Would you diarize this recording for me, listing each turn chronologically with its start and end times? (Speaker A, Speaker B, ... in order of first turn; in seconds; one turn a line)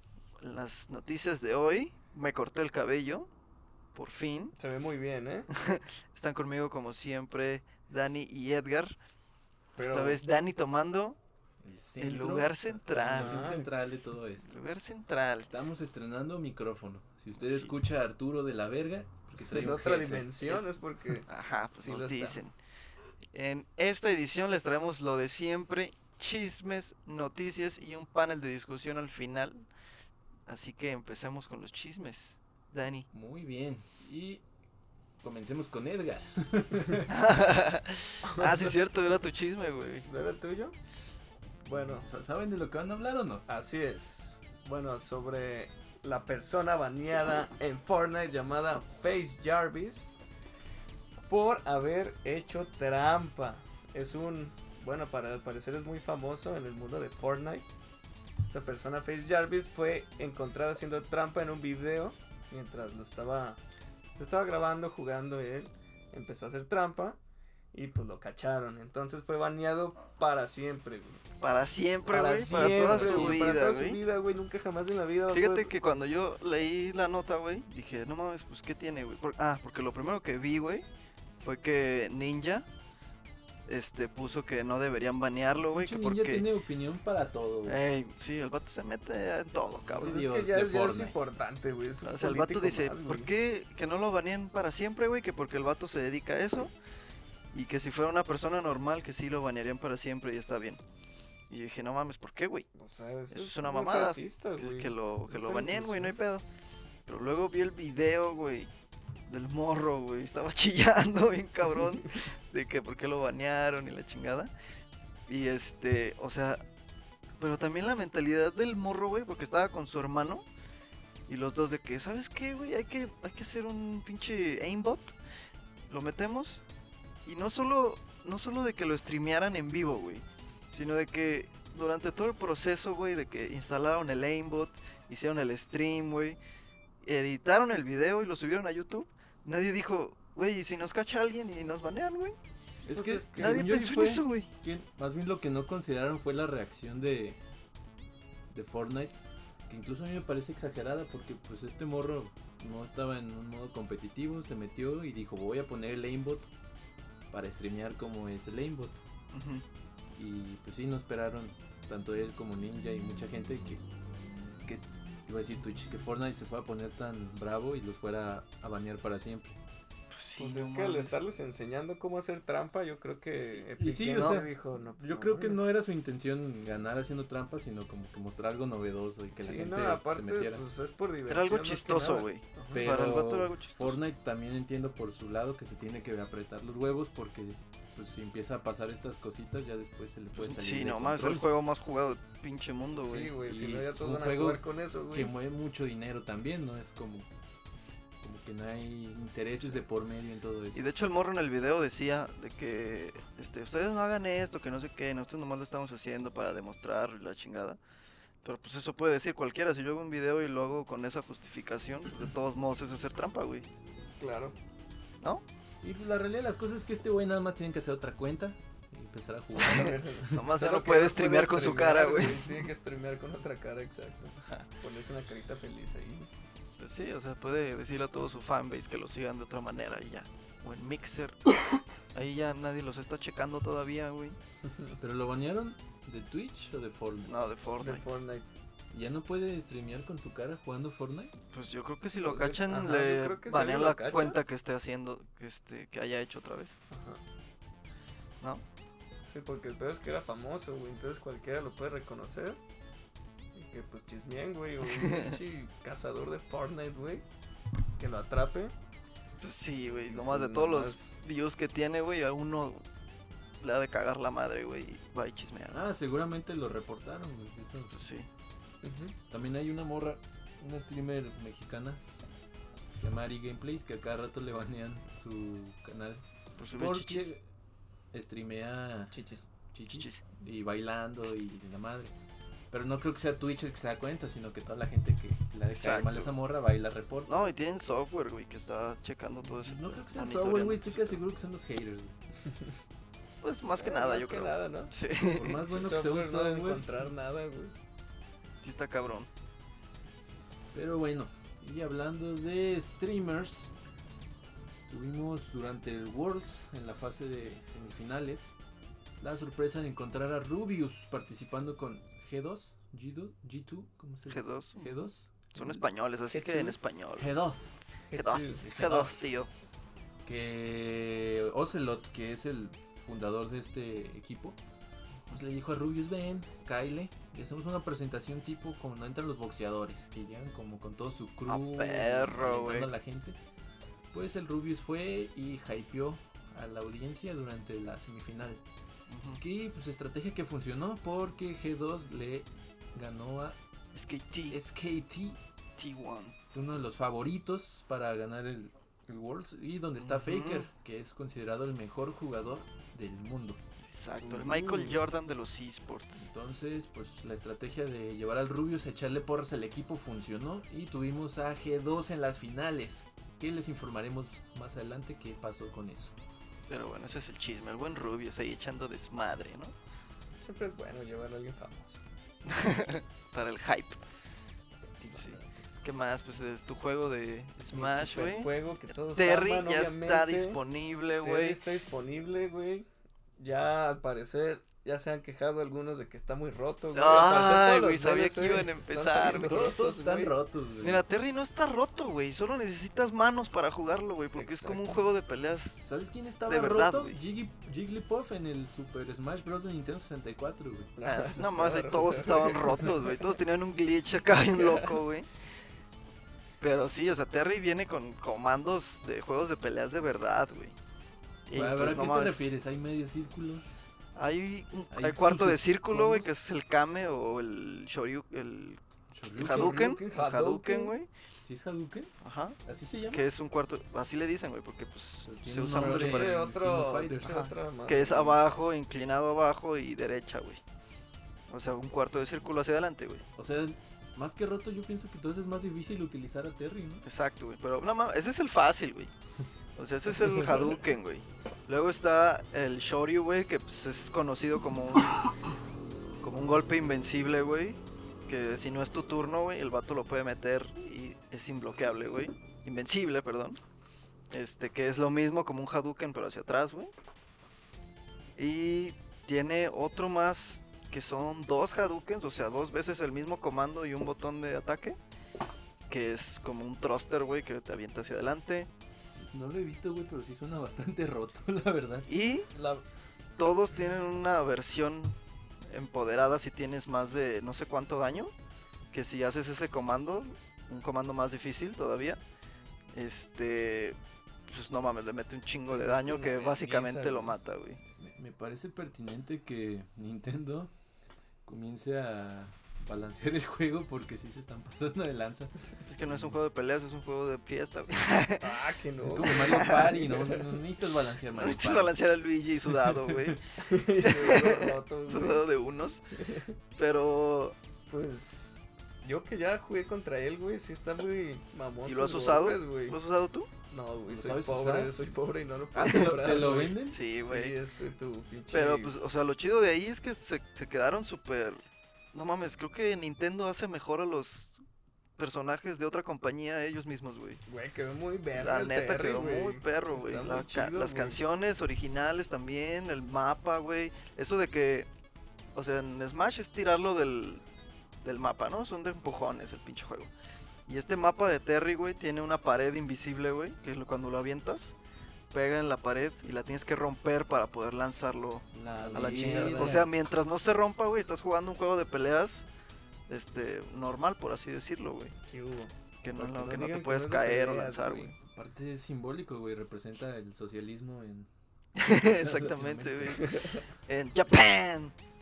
Speaker A: 0.4-3.3
Speaker A: 4.0-4.5
Speaker B: 4.6-5.5
Speaker A: 5.5-9.0
Speaker B: 9.8-10.2
Speaker A: 9.8-11.2
Speaker C: 11.6-14.6
Speaker A: 12.0-13.5
Speaker B: 12.9-13.7
Speaker A: 14.4-15.5
Speaker C: 15.4-20.6
Speaker A: 17.4-17.9
Speaker B: 19.4-22.4
Speaker A: 21.3-22.6
Speaker A: 23.3-29.7
Speaker A: 30.5-33.1
Speaker C: 33.1-34.4
Speaker C: 35.2-37.1
Speaker A: 37.1-40.1
Speaker B: 38.2-39.1
Speaker B: 40.0-40.8
Speaker B: 41.6-42.1
Speaker C: 41.8-43.5
Speaker B: 43.5-50.1
Speaker B: 51.3-57.7
Speaker B: 58.4-63.6
Speaker B: 64.1-67.2
Speaker B: 67.7-71.2
Speaker A: 71.4-74.0
Speaker B: 72.1-75.7
Speaker C: 72.8-73.4
Speaker A: 75.3-80.9
Speaker A: 81.4-82.7
Speaker A: 83.7-86.5
Speaker C: 85.7-87.8
Speaker A: 87.7-90.1
Speaker C: 89.8-91.2
Speaker B: 90.0-93.3
Speaker A: 92.0-96.7
Speaker A: 97.5-100.8
Speaker A: 101.5-102.7
Speaker B: 102.8-106.2
Speaker A: 103.3-106.5
Speaker A: 107.1-108.7
Speaker A: 109.3-114.5
Speaker A: 115.3-116.6
Speaker A: 117.4-120.5
Speaker A: 121.3-125.2
Speaker A: 125.9-126.6
Speaker A: 127.2-136.4
Speaker A: 137.0-142.4
Speaker C: 142.9-147.4
Speaker B: 142.9-143.6
Speaker A: 143.4-144.5
Speaker C: 148.5-149.2
Speaker C: 149.7-156.5
Speaker C: 157.3-159.0
Speaker A: 159.3-159.7
Speaker C: 160.1-163.8
Speaker C: 164.7-169.6
Speaker A: 170.1-171.2
Speaker B: 170.4-175.7
Speaker C: 173.8-180.6
Speaker A: 174.2-174.4
Speaker B: 179.4-182.8
Speaker A: 181.3-184.0
Speaker C: 182.7-191.5
Speaker A: 190.4-193.3
Speaker B: 193.0-195.3
Speaker C: 193.4-197.3
Speaker C: 198.2-200.8
Speaker A: 200.8-207.8
Speaker A: 208.4-213.7
Speaker B: 214.2-214.6
Speaker C: 215.8-220.5
Speaker B: 219.6-226.3
Speaker A: 220.3-222.7
Speaker A: 226.8-231.5
Speaker A: 232.1-234.4
Speaker B: 234.7-234.9
Speaker C: 235.0-237.3
Speaker A: 237.3-238.1
Speaker B: 237.8-238.5
Speaker C: 238.9-241.3
Speaker A: 241.5-246.8
Speaker B: 242.2-244.4
Speaker B: 246.9-247.2
Speaker B: 249.3-252.6
Speaker B: 253.6-257.3
Speaker A: 254.9-255.4
Speaker B: 258.0-258.7
Speaker A: 259.4-262.9
Speaker B: 260.1-261.1
Speaker A: 263.6-265.8
Speaker C: 265.7-267.9
Speaker A: 267.9-268.3
Speaker B: 268.8-269.1
Speaker C: 269.3-272.0
Speaker C: 272.9-276.2
Speaker A: 276.6-277.3
Speaker C: 276.8-277.4
Speaker C: 278.1-279.2
Speaker B: 279.1-279.5
Speaker C: 279.7-282.1
Speaker A: 279.9-280.2
Speaker C: 282.7-287.5
Speaker A: 285.7-286.3
Speaker A: 287.3-291.2
Speaker C: 289.6-292.1
Speaker A: 293.4-295.6
Speaker B: 293.8-294.9
Speaker C: 295.4-297.0
Speaker B: 295.7-297.7
Speaker A: 298.6-299.3
Speaker C: 300.7-303.7
Speaker C: 304.9-308.5
Speaker C: 309.2-315.9
Speaker A: 314.3-314.9
Speaker A: 315.5-317.3
Speaker B: 316.3-316.8
Speaker C: 317.2-317.8
Speaker B: 318.1-318.6
Speaker A: 318.1-319.5
Speaker C: 318.6-319.3
Speaker C: 320.2-324.6
Speaker C: 325.3-333.4
Speaker A: 331.5-332.9
Speaker C: 334.1-338.6
Speaker A: 339.1-339.4
Speaker C: 339.4-343.6
Speaker A: 343.9-344.6
Speaker C: 344.5-345.4
Speaker A: 345.8-346.4
Speaker C: 346.5-353.6
Speaker A: 350.0-350.7
Speaker A: 353.8-356.3
Speaker B: 354.2-355.0
Speaker C: 356.2-366.1
Speaker A: 366.7-369.8
Speaker B: 370.4-372.0
Speaker A: 372.5-374.0
Speaker B: 374.8-375.6
Speaker A: 375.1-378.5
Speaker B: 377.7-380.6
Speaker A: 379.1-381.6
Speaker B: 381.2-390.3
Speaker A: 386.9-389.7
Speaker C: 389.4-391.1
Speaker A: 390.8-395.8
Speaker B: 394.4-395.0
Speaker C: 395.8-400.9
Speaker A: 396.5-397.2
Speaker B: 401.0-403.1
Speaker A: 401.0-405.3
Speaker B: 404.6-404.9
Speaker A: 406.6-410.8
Speaker A: 411.5-412.5
Speaker C: 411.5-413.7
Speaker A: 414.1-418.8
Speaker C: 414.9-416.3
Speaker C: 419.1-419.9
Speaker A: 419.4-421.1
Speaker B: 419.4-420.9
Speaker C: 421.4-423.3
Speaker A: 422.2-422.6
Speaker A: 423.1-426.4
Speaker C: 425.3-427.3
Speaker B: 425.8-428.4
Speaker A: 427.2-430.6
Speaker A: 431.5-433.2
Speaker C: 433.4-437.1
Speaker A: 437.1-439.1
Speaker A: 439.8-445.3
Speaker B: 440.3-440.6
Speaker A: 446.2-453.6
Speaker A: 454.3-456.9
Speaker A: 458.4-465.0
Speaker A: 465.9-468.7
Speaker C: 469.2-472.8
Speaker A: 472.1-472.5
Speaker A: 473.4-478.3
Speaker A: 478.9-482.2
Speaker A: 482.9-487.8
Speaker B: 485.7-487.4
Speaker C: 487.9-490.7
Speaker C: 491.5-495.5
Speaker A: 495.9-498.5
Speaker C: 496.1-496.4
Speaker B: 498.4-500.5
Speaker C: 499.0-501.9
Speaker A: 499.3-499.9
Speaker A: 501.4-503.4
Speaker C: 502.7-503.4
Speaker B: 503.6-505.4
Speaker A: 504.0-506.0
Speaker B: 506.1-506.6
Speaker A: 506.8-507.6
Speaker B: 507.9-513.0
Speaker A: 511.9-513.5
Speaker B: 513.7-519.0
Speaker C: 514.1-514.9
Speaker C: 515.7-517.0
Speaker A: 516.9-517.5
Speaker A: 518.5-524.6
Speaker A: 525.2-527.4
Speaker B: 527.5-531.2
Speaker A: 528.3-534.9
Speaker A: 535.5-537.4
Speaker A: 538.0-540.1
Speaker A: 540.7-544.8
Speaker A: 545.3-552.5
Speaker C: 548.5-550.0
Speaker B: 548.7-549.9
Speaker A: 553.1-555.1
Speaker B: 555.3-558.1
Speaker A: 556.0-558.2
Speaker C: 558.2-561.3
Speaker A: 561.8-563.2
Speaker C: 561.9-563.3
Speaker B: 563.2-563.6
Speaker A: 563.9-564.9